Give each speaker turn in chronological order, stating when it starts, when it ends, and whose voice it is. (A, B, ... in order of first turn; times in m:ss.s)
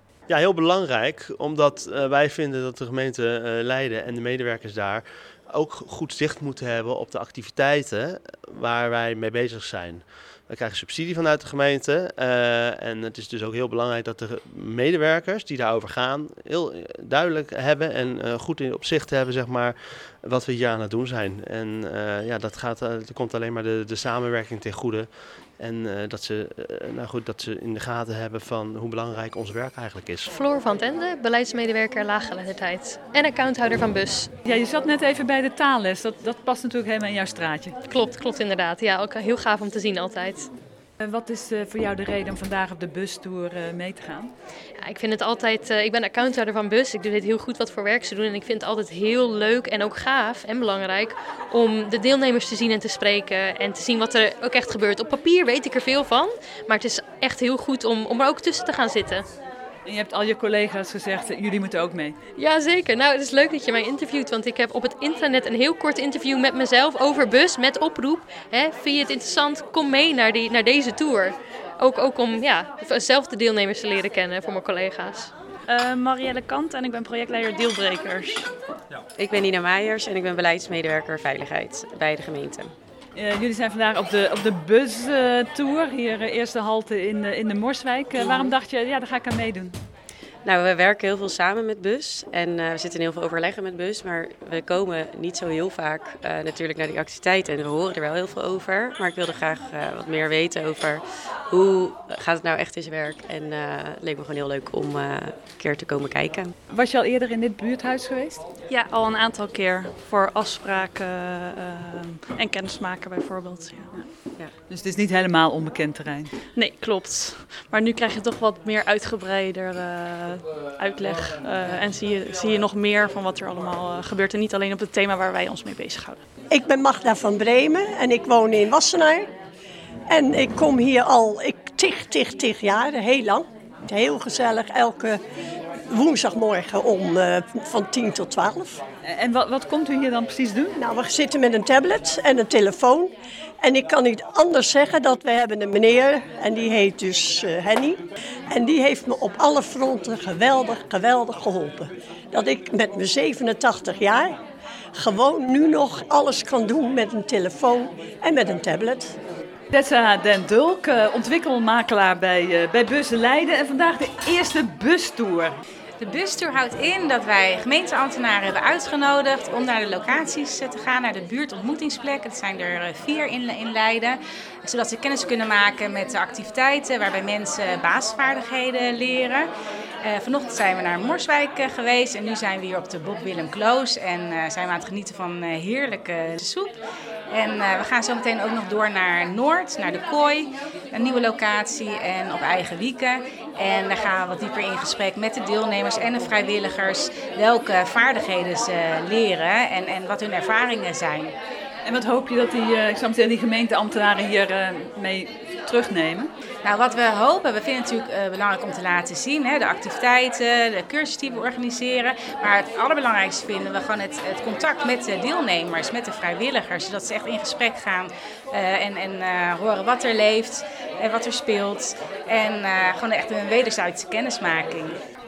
0:00.3-0:30.3 A
0:30.3-0:34.3 B
0:34.4-0:37.8 C
0:37.9-0:40.5 B
0:41.0-0:44.3 C
0:44.8-0:59.3 B
0:59.8-1:02.2 C
1:02.4-1:15.3 B
1:15.7-1:18.5 D
1:19.2-1:22.7 E
1:23.1-1:29.8 C
1:28.2-1:28.5 E
1:30.4-1:46.5 E
1:46.7-1:48.4 C
1:48.7-1:54.0 D
1:54.7-1:56.4 C
1:56.5-2:06.2 D
2:06.5-2:09.3 F
2:10.1-2:15.2 F
2:15.9-2:18.8 F
2:19.0-2:20.8 C
2:20.8-2:28.0 F
2:28.5-2:34.4 F
2:35.0-2:39.2 F
2:39.7-2:45.6 C
2:46.0-2:59.5 G
3:00.0-3:21.3 G
3:21.8-3:26.3 C
3:26.6-3:45.0 G